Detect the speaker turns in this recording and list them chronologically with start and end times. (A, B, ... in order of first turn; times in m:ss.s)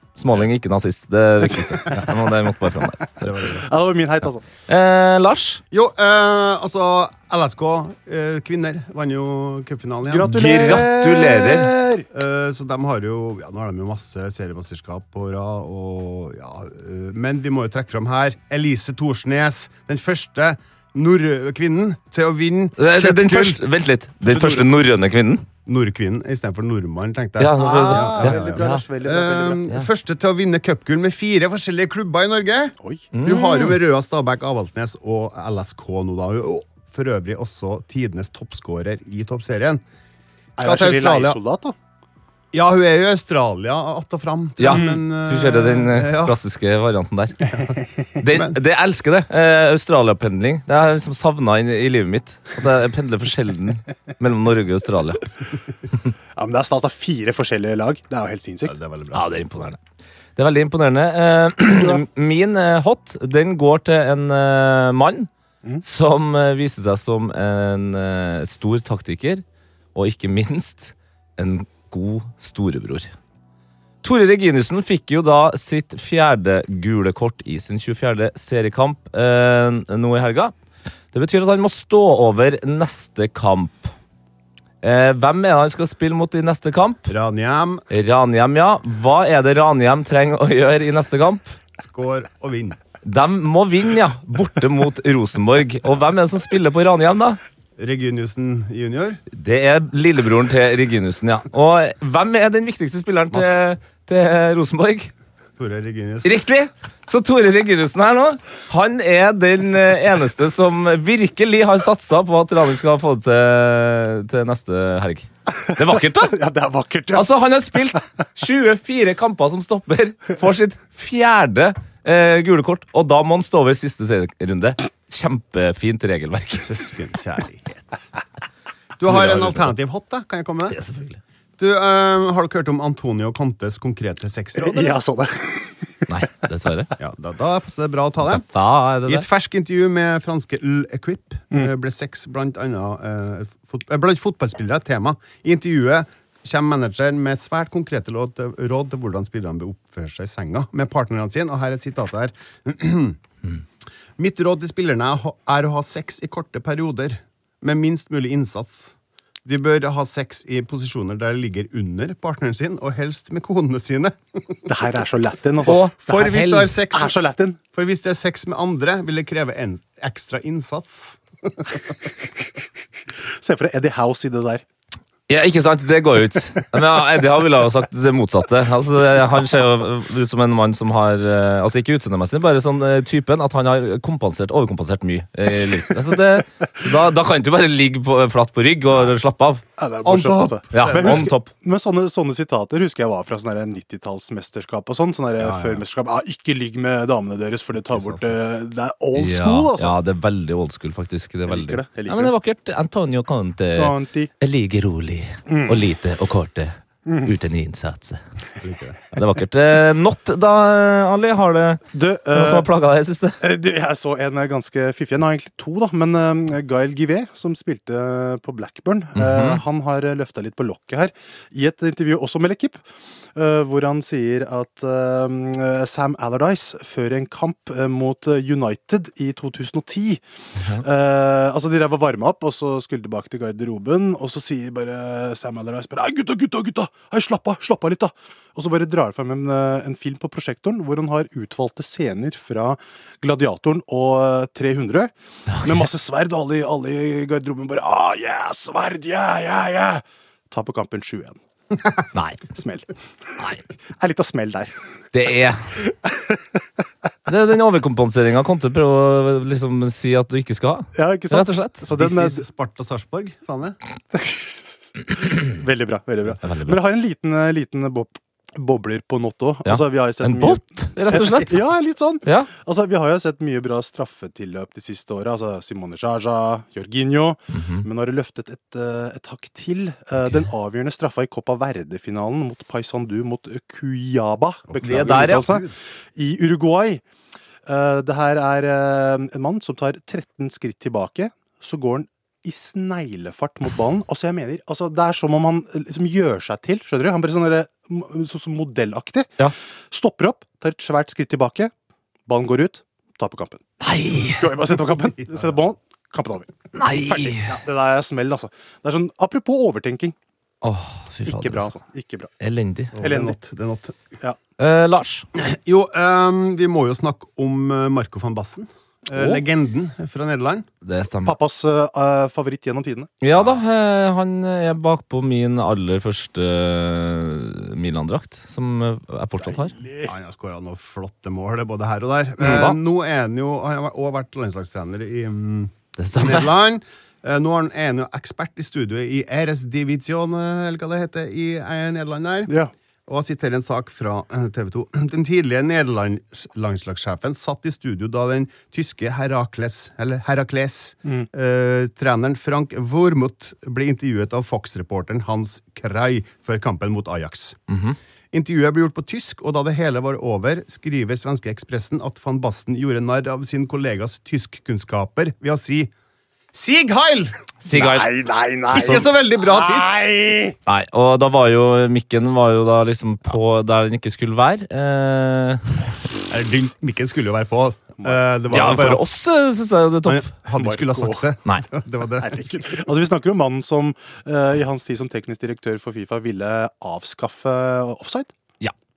0:00.2-0:03.3 A
0:01.4-0:04.4 B
0:03.2-0:03.7 C
0:04.7-0:05.6 A
0:05.7-0:10.8 C
0:10.0-0:12.0 B
0:10.3-0:11.7 A
0:12.1-0:23.6 C
0:22.8-0:25.4 A
0:24.2-0:24.7 B
0:25.6-0:39.8 C
0:27.4-0:28.8 A
0:27.6-0:29.6 B
0:32.8-0:33.1 B
0:33.1-0:33.8 A
0:40.6-0:41.7 B
0:40.6-0:41.4 C
0:42.5-0:46.4 C
0:44.6-0:47.4 A
0:44.7-0:44.9 B
0:47.5-0:48.6 C
0:48.2-0:55.3 A
0:56.4-0:58.7 B
0:58.6-0:59.3 C
0:59.1-0:59.8 A
1:00.4-1:05.3 A
1:01.6-1:02.0 B
1:05.8-1:09.4 A
1:09.9-1:13.1 A
1:14.0-1:20.5 A
1:21.1-1:23.9 A
1:24.8-1:27.1 A
1:27.1-1:27.8 C
1:27.9-1:31.6 A
1:31.8-1:32.8 C
1:33.0-1:37.4 A
1:37.8-1:39.2 C
1:39.3-1:45.1 A
1:43.3-1:43.6 C
1:45.6-1:46.4 C
1:46.2-1:56.3 A
1:55.7-1:57.2 B
1:57.1-2:06.8 A
2:06.6-2:08.1 C
2:09.0-2:10.8 C
2:09.0-2:09.7 A
2:10.7-2:11.2 A
2:11.6-2:15.0 C
2:14.6-2:15.9 B
2:16.1-2:16.9 A
2:17.0-2:18.5 C
2:18.2-2:19.3 A
2:19.0-2:33.2 C
2:34.2-2:38.9 C
2:39.4-2:44.7 C
2:44.6-2:47.6 B
2:45.6-2:46.8 A
2:45.7-2:47.2 C
2:47.7-2:52.0 C
2:53.4-2:54.6 B
2:55.3-3:09.6 A
3:09.8-3:19.9 B
3:10.0-3:11.3 C
3:10.7-3:11.5 A
3:15.4-3:15.8 C
3:17.8-3:18.4 C
3:19.1-3:26.7 A
3:21.4-3:22.3 B
3:23.7-3:24.3 B
3:25.5-3:25.8 B
3:27.0-3:27.3 B
3:27.2-3:28.2 A
3:28.6-3:29.0 C
3:29.1-3:31.8 A
3:31.9-3:32.7 B
3:32.3-3:33.4 A
3:33.4-3:42.8 B
3:39.1-3:39.6 A
3:43.3-3:50.2 B
3:50.8-4:11.4 B
4:12.1-4:12.4 A
4:12.5-4:12.9 B
4:14.0-4:14.7 B
4:15.1-4:15.7 A
4:17.3-4:21.8 A
4:20.9-4:22.4 B
4:21.9-4:23.8 C
4:24.1-4:47.0 B
4:26.4-4:26.8 A
4:29.6-4:31.6 A
4:32.2-4:32.5 A
4:37.5-4:37.8 A
4:44.7-4:45.7 C
4:44.8-4:45.4 A
4:47.7-4:59.3 B
4:59.9-5:01.7 B
5:02.3-5:03.6 B
5:03.8-5:04.5 A
5:04.2-5:06.5 B
5:05.0-5:05.6 C
5:06.7-5:07.6 A
5:07.0-5:10.1 B
5:10.6-5:11.7 A
5:11.2-5:12.3 B
5:12.4-5:12.9 A
5:12.9-5:14.0 C
5:13.0-5:13.4 B
5:14.6-5:15.2 A
5:15.4-5:20.6 C
5:19.1-5:19.4 B
5:20.8-5:21.3 A
5:21.2-5:23.2 B
5:23.2-5:29.7 A
5:29.4-5:30.1 B
5:30.0-5:57.6 C
5:32.4-5:32.8 A
5:36.0-5:36.5 A
5:57.7-5:58.0 A
5:58.3-6:05.9 C
6:06.5-6:07.4 C
6:07.6-6:08.1 A
6:07.7-6:10.5 B
6:08.7-6:10.0 C
6:08.8-6:09.0 A
6:10.6-6:15.8 A
6:16.3-6:19.0 C
6:18.5-6:20.3 A
6:20.0-6:22.8 C
6:20.5-6:21.2 B
6:22.2-6:28.3 B